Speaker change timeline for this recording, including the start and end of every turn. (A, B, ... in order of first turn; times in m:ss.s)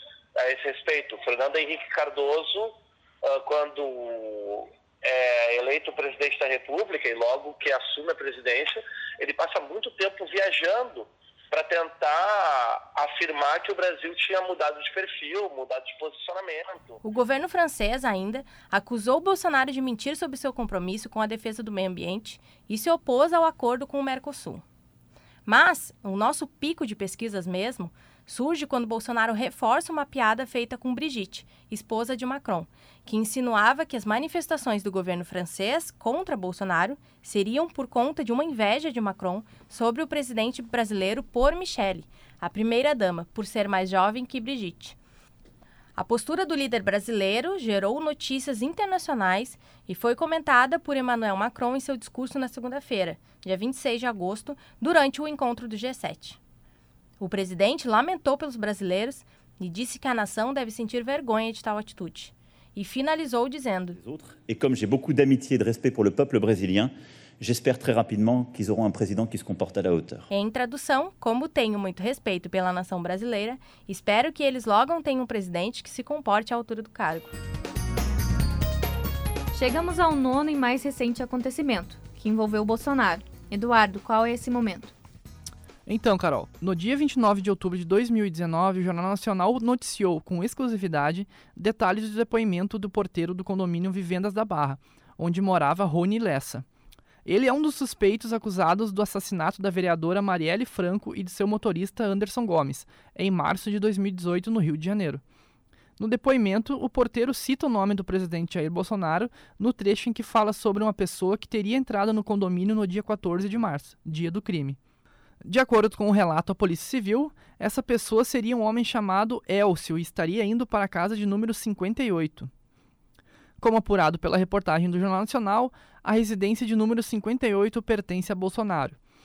0:00.4-0:17.0 A
0:17.0-0:24.6 B
0:25.5-0:45.0 B
0:46.0-0:56.4 B
0:57.2-1:04.0 B
1:04.0-1:10.3 C
1:10.3-1:17.3 B
1:19.5-1:24.9 D
1:25.9-1:36.7 E
1:37.2-1:45.2 E
1:46.0-1:54.8 E
1:55.4-2:02.5 E
2:03.6-2:09.0 E